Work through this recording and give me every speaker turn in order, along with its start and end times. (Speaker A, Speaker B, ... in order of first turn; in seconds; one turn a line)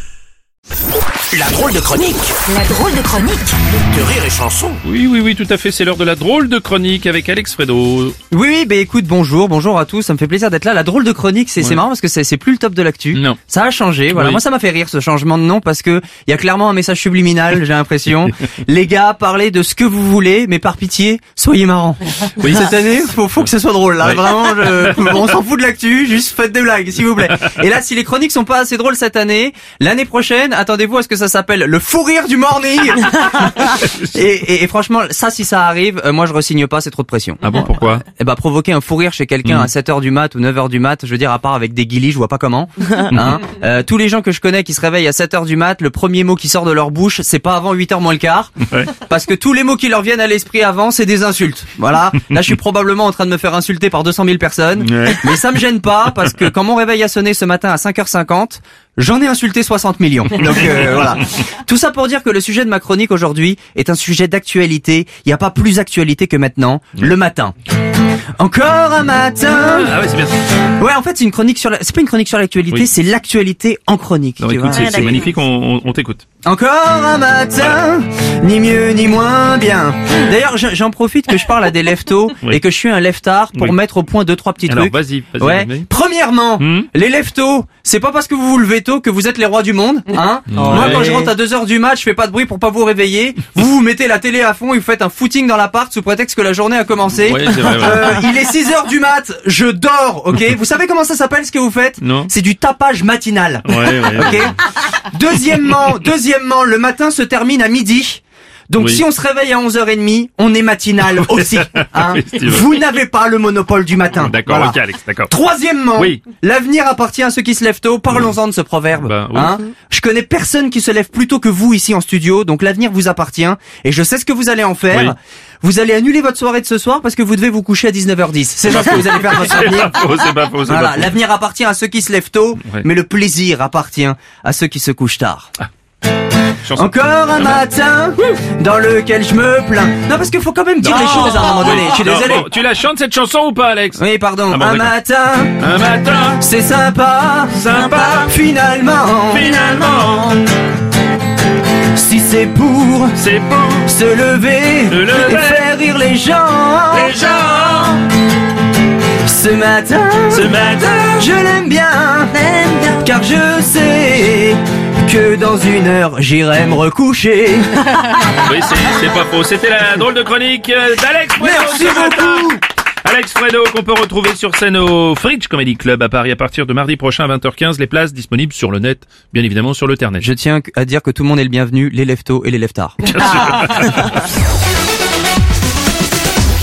Speaker A: 1.3-2.4
Speaker B: 2.5-3.6
Speaker A: 3.7-4.8
Speaker C: 4.8-8.2
Speaker D: 8.3-67.5
Speaker C: 14.1-14.4
Speaker C: 22.4-22.7
Speaker C: 37.4-38.0
Speaker C: 54.8-55.4
Speaker D: 68.4-69.9
Speaker C: 69.5-70.4
Speaker D: 70.8-75.2
Speaker C: 74.4-76.2
Speaker B: 74.7-75.2
Speaker D: 76.4-130.1
Speaker C: 84.7-85.9
Speaker C: 86.6-86.9
Speaker C: 90.5-91.3
Speaker C: 97.2-98.2
Speaker C: 102.0-102.3
Speaker C: 103.7-104.5
Speaker C: 111.2-112.8
Speaker C: 114.2-115.3
Speaker C: 119.0-119.7
Speaker C: 128.7-131.2
Speaker D: 130.6-135.5
Speaker C: 136.6-137.6
Speaker D: 136.7-142.5
Speaker C: 140.8-145.0
Speaker D: 143.9-145.6
Speaker C: 145.6-146.4
Speaker D: 146.3-149.5
Speaker C: 147.5-148.3
Speaker C: 149.3-150.4
Speaker D: 151.9-153.2
Speaker C: 153.2-153.9
Speaker D: 153.8-157.1
Speaker C: 154.9-155.7
Speaker C: 156.9-158.0
Speaker D: 159.2-160.6
Speaker C: 160.3-161.3
Speaker D: 161.1-168.1
Speaker B: 162.4-163.0
Speaker C: 168.4-180.2
Speaker D: 171.4-172.6
Speaker D: 180.2-183.5
Speaker C: 183.1-184.1